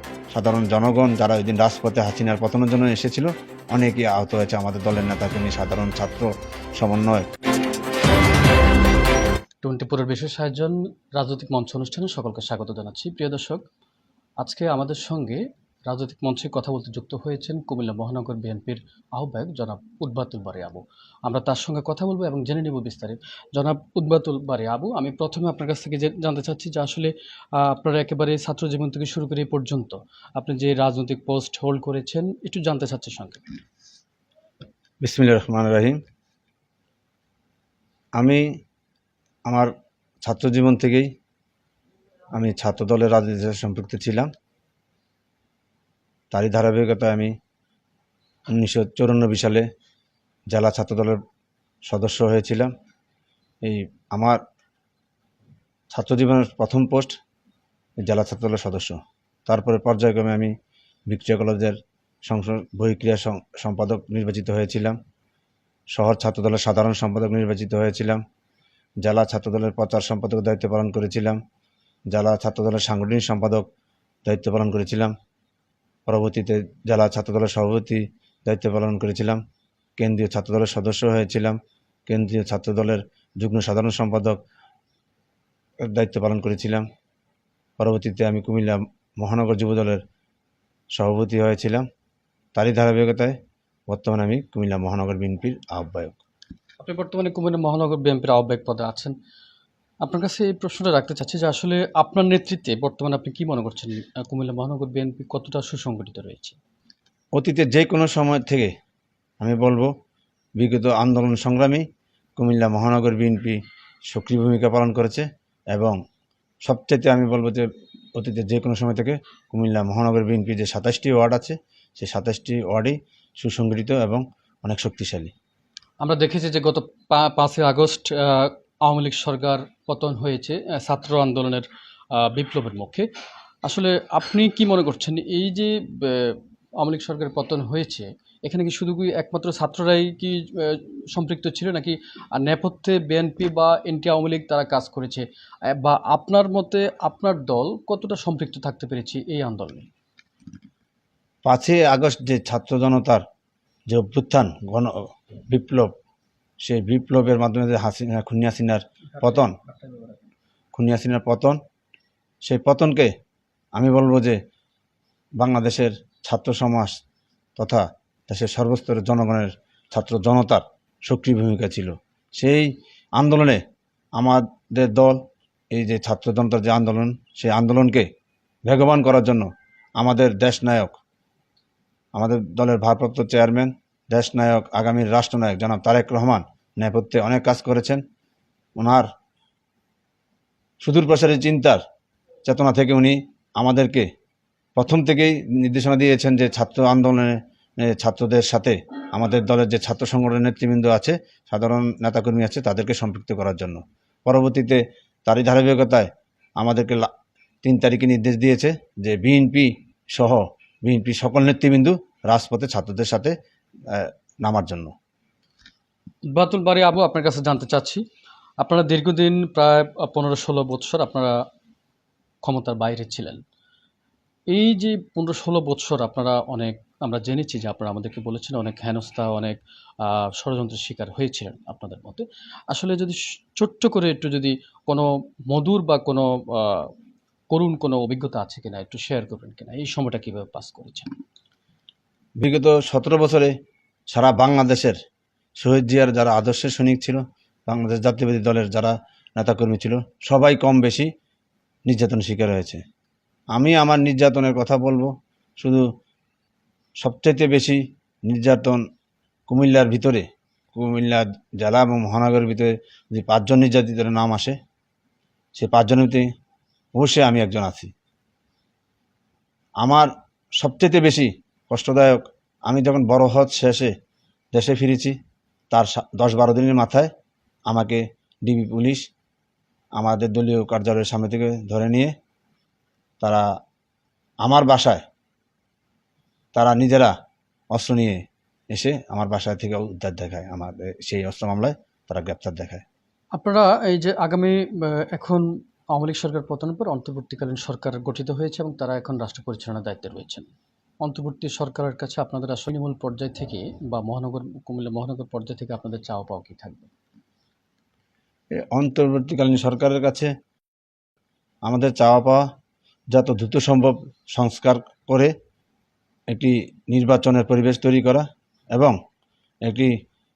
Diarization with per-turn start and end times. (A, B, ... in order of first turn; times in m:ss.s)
0:00.3-0:07.3 A
0:09.6-0:13.6 B
0:14.4-0:33.4 B
0:35.0-0:36.0 A
0:38.2-0:38.4 A
0:39.5-0:39.7 A
0:40.2-0:41.1 A
0:42.3-0:44.3 A
0:46.3-0:47.3 A
0:48.5-0:49.6 A
0:50.5-0:51.2 A
0:51.8-0:52.7 A
0:53.6-0:54.4 A
0:55.9-0:57.2 A
0:58.0-1:00.5 A
1:01.1-1:05.0 A
1:05.9-1:08.2 A
1:09.0-1:11.4 A
1:12.1-1:13.7 A
1:14.2-1:15.1 A
1:16.1-1:19.4 A
1:20.0-1:24.4 A
1:25.8-1:26.8 A
1:27.8-1:30.0 A
1:30.9-1:31.8 A
1:32.5-1:33.4 A
1:33.9-1:36.2 A
1:36.8-1:39.1 B
1:40.0-1:46.6 B
1:47.4-1:48.7 A
1:49.4-1:49.9 A
1:50.6-1:51.8 A
1:52.4-1:56.0 A
1:56.6-2:05.3 A
2:06.0-2:13.1 B
2:13.6-2:29.9 B
2:31.4-2:33.2 A
2:33.9-2:35.9 A
2:36.6-2:39.6 A
2:39.6-2:40.2 B
2:40.7-2:41.6 A
2:42.4-2:43.1 A
2:43.8-2:44.4 A
2:45.4-2:47.0 A
2:47.6-2:53.6 A
2:54.2-2:58.1 A
2:58.7-3:01.0 A
3:02.1-3:08.0 A
3:08.8-3:09.1 A
3:10.8-3:11.8 A
3:12.5-3:14.1 A
3:14.8-3:27.1 A
3:27.6-3:33.4 A
3:33.9-3:34.9 A
3:36.3-3:38.0 B
3:38.6-3:41.4 B
3:42.4-3:43.4 B
3:44.5-3:56.9 B
3:57.5-4:01.1 B
4:02.4-4:03.5 A
4:04.1-4:05.0 A
4:05.6-4:11.1 A
4:11.9-4:12.8 A
4:13.6-4:15.8 A
4:17.0-4:18.8 A
4:19.5-4:24.6 A
4:25.6-4:26.3 A
4:26.9-4:27.9 A
4:29.8-4:33.9 A
4:34.5-4:35.1 A
4:35.7-4:37.1 A
4:37.7-4:39.1 A
4:40.0-4:42.1 A
4:44.4-4:45.0 A
4:46.6-4:47.1 A
4:47.7-4:52.8 A
4:53.4-5:00.5 B
5:01.0-5:06.9 B
5:08.5-5:10.3 A
5:11.6-5:12.4 A
5:13.1-5:15.3 A
5:16.3-5:19.0 A
5:19.6-5:19.9 A